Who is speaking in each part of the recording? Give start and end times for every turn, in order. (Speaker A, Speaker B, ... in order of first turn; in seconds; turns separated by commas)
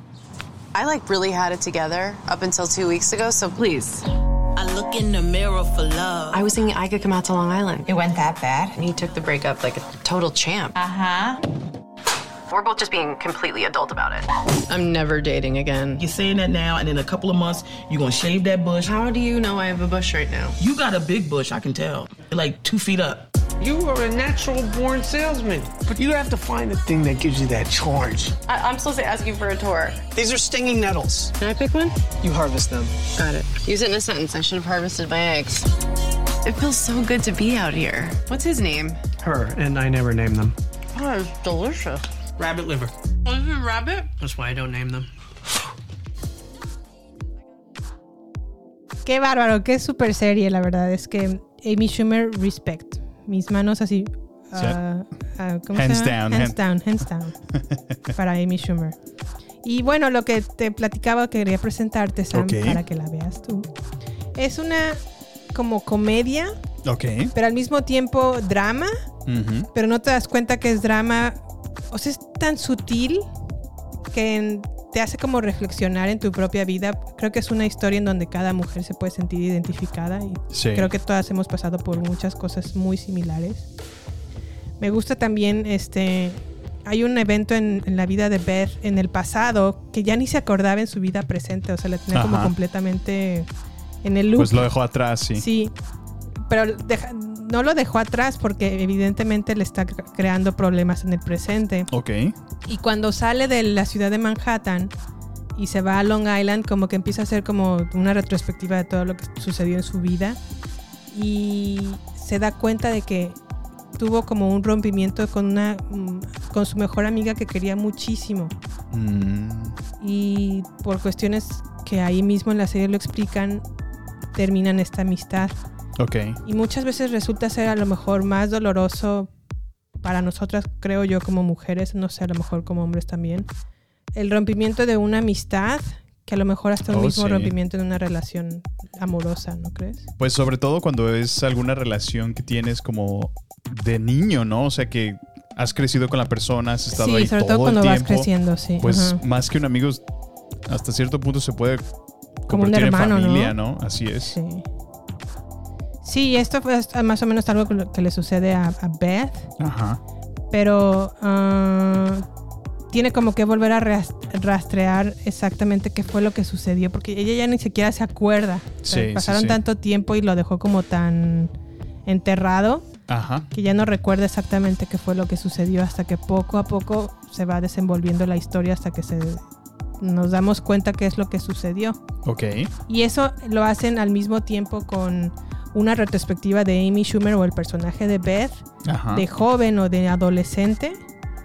Speaker A: 0.7-4.0, Speaker A: 6.3-11.0, Speaker A: 12.5-16.0, Speaker B: 16.0-18.9, Speaker A: 18.8-20.6, Speaker B: 20.6-23.2, Speaker C: 23.6-28.3, Speaker A: 28.4-30.1, Speaker C: 30.1-31.3, Speaker A: 31.4-31.9, Speaker C: 32.2-32.9, Speaker A: 33.1-35.6, Speaker A: 36.4-39.0, Speaker C: 39.2-40.5, Speaker A: 40.9-42.0, Speaker C: 42.4-42.9, Speaker A: 43.3-44.1, Speaker C: 44.1-45.1, Speaker D: 49.0-57.4, Speaker E: 55.7-56.6, Speaker E: 57.5-58.1, Speaker D: 58.1-59.0, Speaker D: 59.6-63.7, Speaker E: 62.3-62.8, Speaker D: 64.3-65.0, Speaker D: 65.5-66.5, Speaker E: 66.8-67.3, Speaker D: 67.3-68.9, Speaker E: 69.2-69.7, Speaker D: 69.7-71.4, Speaker D: 71.9-73.3, Speaker D: 74.1-83.7, Speaker E: 80.5-80.9, Speaker D: 84.8-93.5, Speaker E: 92.1-92.5, Speaker D: 94.0-94.7, Speaker E: 94.3-95.5, Speaker D: 95.3-95.7, Speaker D: 96.5-101.9, Speaker E: 101.9-102.3, Speaker D: 102.7-104.9, Speaker D: 105.5-110.4, Speaker D: 111.1-113.4, Speaker D: 114.0-118.5, Speaker E: 118.9-119.8, Speaker D: 120.0-123.6, Speaker D: 124.3-125.6, Speaker E: 126.0-126.4, Speaker D: 126.4-129.3, Speaker D: 130.0-133.5, Speaker D: 134.1-140.1, Speaker E: 136.8-137.5, Speaker E: 140.2-150.0, Speaker D: 146.9-149.2, Speaker E: 150.7-151.8, Speaker E: 152.4-154.3, Speaker D: 152.5-153.6, Speaker D: 154.2-154.6, Speaker D: 156.0-159.5, Speaker E: 159.6-160.0, Speaker D: 160.5-162.2, Speaker D: 162.9-171.5, Speaker E: 168.8-169.6, Speaker D: 172.1-172.9, Speaker E: 173.1-173.5, Speaker D: 173.5-179.4, Speaker D: 180.0-182.0, Speaker E: 182.2-182.7, Speaker D: 182.9-191.0, Speaker E: 188.8-189.2